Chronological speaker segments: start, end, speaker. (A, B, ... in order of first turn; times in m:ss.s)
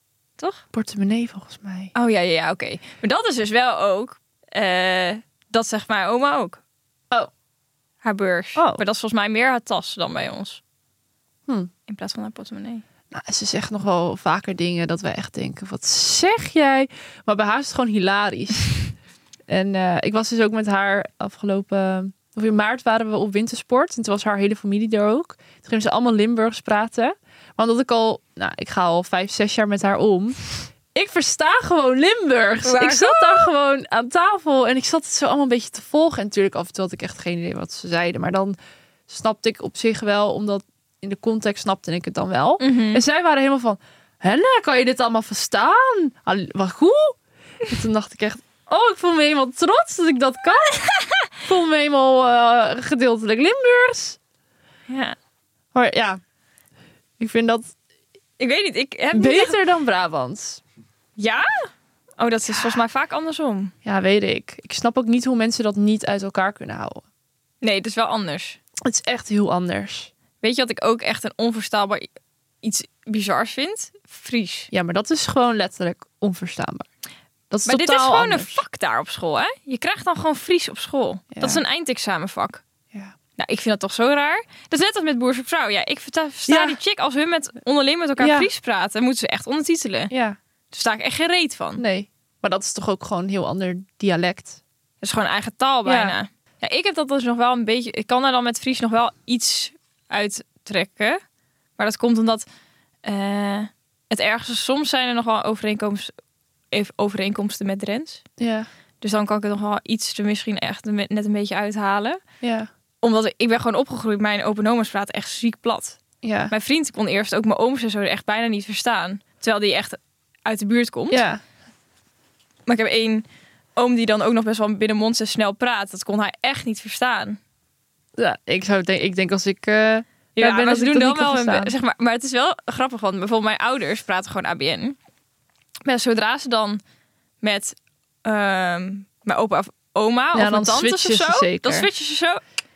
0:00.4-0:00.6 A
0:00.7-0:01.9 B
0:01.9-0:06.6 A
0:08.0-0:10.6 A
0:08.6-0:08.8 B
0:11.9-0:12.8 A
0:13.1-0:18.9 B
0:19.5-0:38.6 B
0:32.6-0:33.5 A
0:39.1-0:50.8 B
0:42.6-0:43.0 A
0:50.8-0:51.3 A
0:51.4-0:54.2 B
0:54.9-0:55.2 A
0:55.7-0:56.2 B
0:57.2-0:57.7 B
0:58.4-0:59.6 A
0:59.1-1:00.6 B
1:01.2-1:03.7 A
1:02.5-1:02.8 B
1:03.8-1:07.0 B
1:07.6-1:08.6 A
1:08.8-1:10.1 B
1:10.4-1:12.1 A
1:12.6-1:14.7 A
1:14.7-1:16.9 B
1:17.5-1:18.6 B
1:17.6-1:22.6 A
1:21.3-1:21.6 B
1:23.4-1:30.1 A
1:26.5-1:26.8 B
1:28.2-1:28.5 B
1:30.1-1:30.4 B
1:30.7-1:31.8 A
1:31.8-1:34.6 B
1:35.0-1:41.2 A
1:35.8-1:36.2 B
1:41.8-1:42.4 A
1:43.0-1:46.1 A
1:46.7-1:48.2 A
1:48.4-1:48.7 B
1:49.0-1:52.2 A
1:52.4-1:52.7 B
1:53.0-1:56.0 A
1:56.2-1:56.5 B
1:56.5-2:01.2 A
2:01.1-2:01.4 B
2:02.7-2:03.2 A
2:03.8-2:07.4 A
2:08.2-2:11.7 B
2:10.4-2:15.0 A
2:15.8-2:16.8 A
2:17.4-2:22.4 A
2:20.3-2:21.9 B